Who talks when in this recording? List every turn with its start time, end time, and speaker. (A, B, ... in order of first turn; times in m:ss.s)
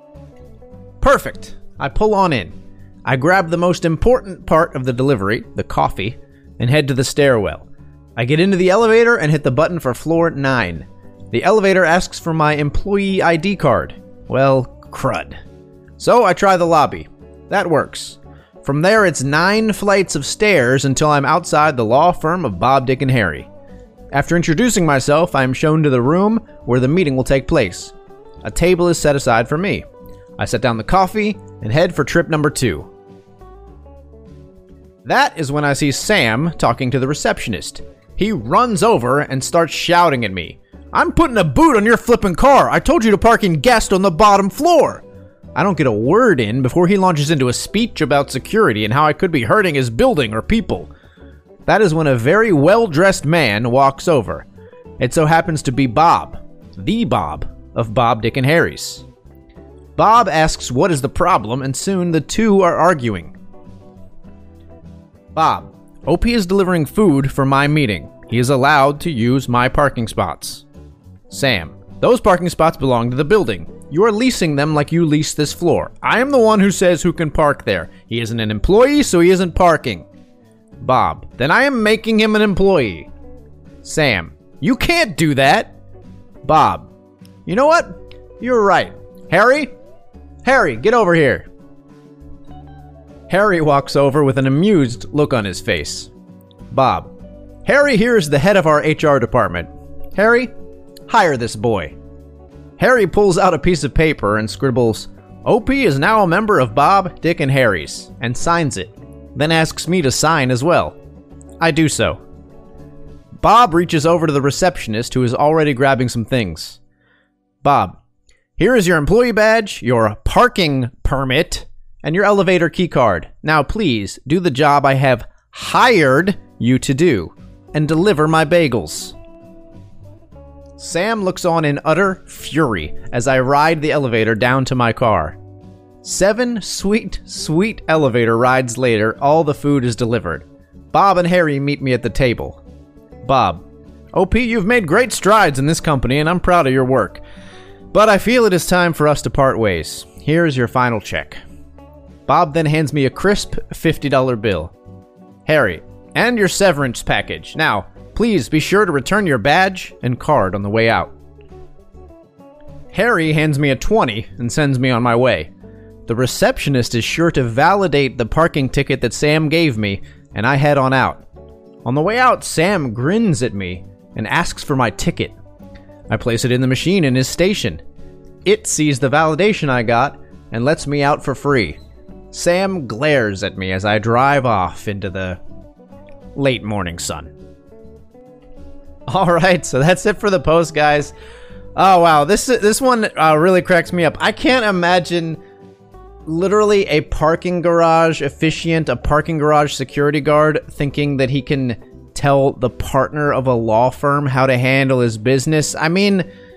0:01.0-0:07.6 A
0:08.2-0:15.4 A
0:16.0-0:23.5 A
0:24.1-0:29.8 A
0:30.4-0:32.9 A
0:35.0-0:45.0 A
0:45.5-0:50.9 A
0:51.7-0:54.5 A
0:55.0-0:59.0 A
1:00.0-1:03.4 A
1:05.3-1:10.6 A
1:11.3-1:20.1 A
1:20.8-1:23.1 A
1:23.8-1:25.7 A
1:26.4-1:26.9 A
1:27.4-1:29.7 A
1:30.4-1:31.5 A
1:33.3-1:36.1 A
1:36.7-1:37.1 A
1:37.6-1:40.5 A
1:41.1-1:41.9 A
1:42.8-1:51.0 A
1:51.6-1:52.2 A
1:53.4-1:56.8 A
1:57.6-1:58.0 A
1:58.6-2:09.1 A
2:10.8-2:15.4 A
2:16.0-2:22.6 A
2:23.2-2:23.6 A
2:24.1-2:27.2 A
2:27.9-2:31.4 A
2:32.3-2:34.7 A
2:35.4-2:41.1 A
2:42.9-2:45.5 A
2:46.1-2:51.2 A
2:51.8-2:55.4 A
2:56.1-2:57.8 A
2:58.4-3:01.8 A
3:02.3-3:05.4 A
3:06.3-3:07.3 A
3:09.1-3:11.1 A
3:11.8-3:15.4 A
3:16.2-3:26.3 A